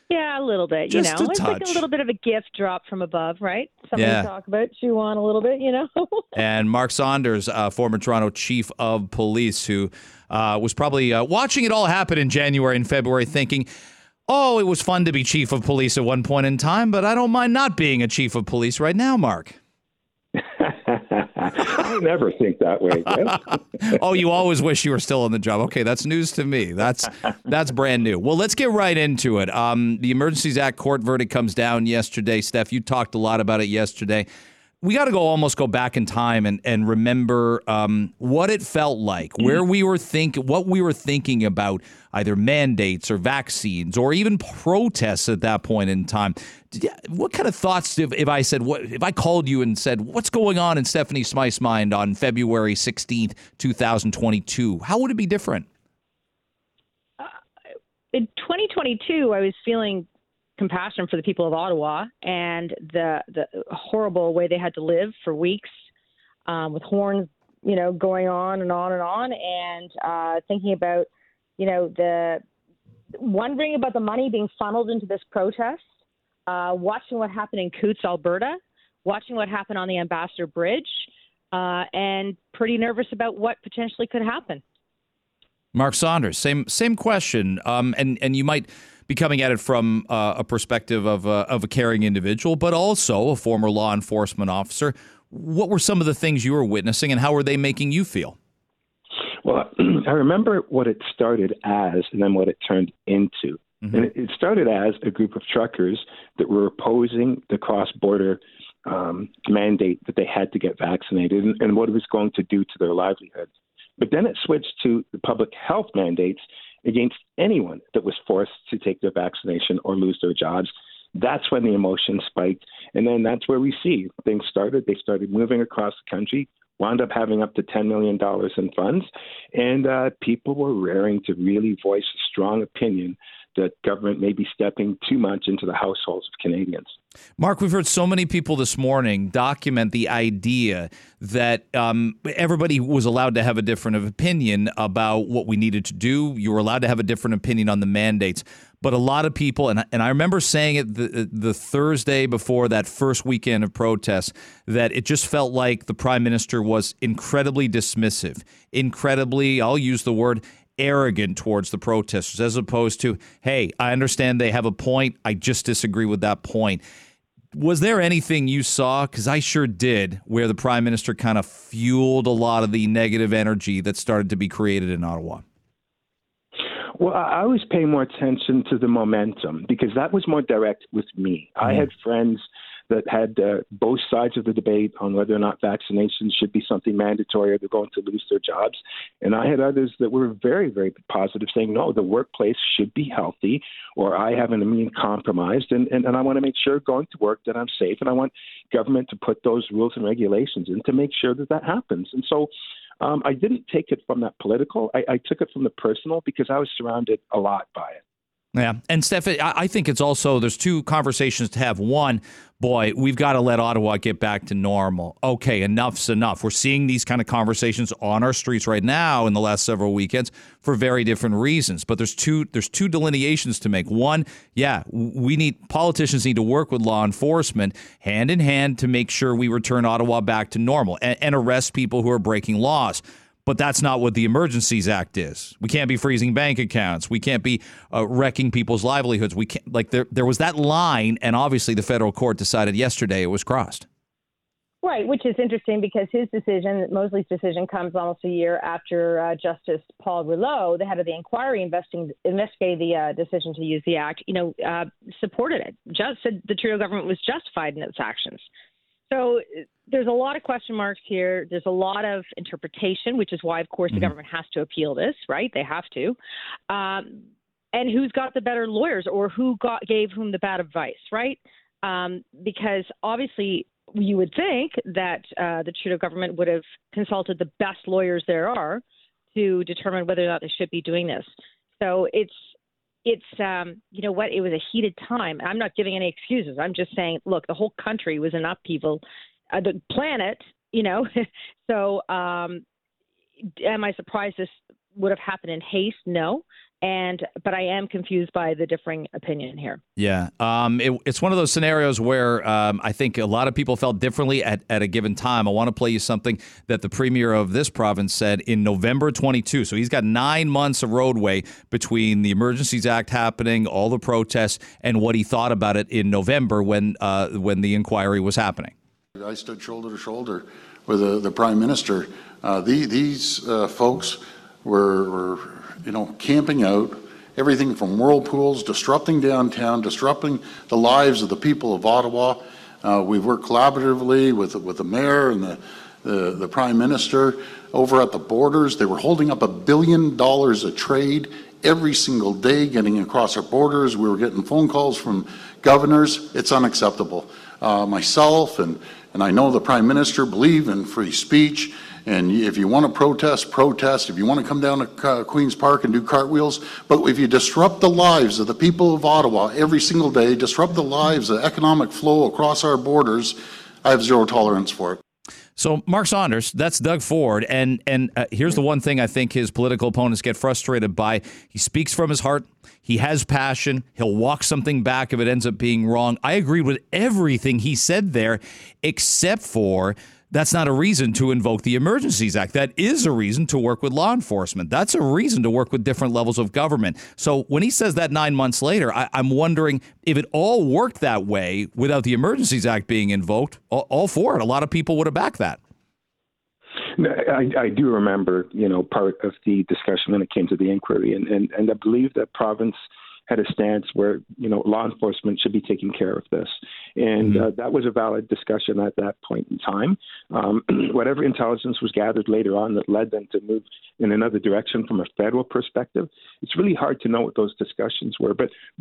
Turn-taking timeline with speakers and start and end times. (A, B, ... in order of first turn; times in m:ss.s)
0:00.1-0:06.3 A
0:00.9-0:01.8 B
0:04.0-0:04.3 B
0:06.3-0:13.7 B
0:14.3-0:19.6 B
0:20.4-0:23.6 C
0:23.2-0:34.3 B
0:34.8-0:55.7 B
0:58.1-1:00.1 A
1:00.6-1:05.7 A
1:06.5-1:12.4 A
1:13.1-1:15.8 A
1:16.5-1:24.6 A
1:25.7-1:38.4 B
1:39.4-2:16.9 C
2:17.4-2:46.8 B
2:47.5-2:55.4 B
2:57.0-3:28.0 C
3:28.5-4:03.8 B
4:04.8-4:18.5 A
4:19.1-4:26.2 A
4:26.7-4:38.8 A
4:39.3-4:41.3 A
4:41.8-4:42.4 A
4:43.0-4:52.6 A
4:53.4-4:59.8 A
5:00.0-5:18.7 B
5:19.2-6:05.0 D
6:05.6-6:35.6 B
6:36.9-6:42.8 C
6:43.3-6:58.5 C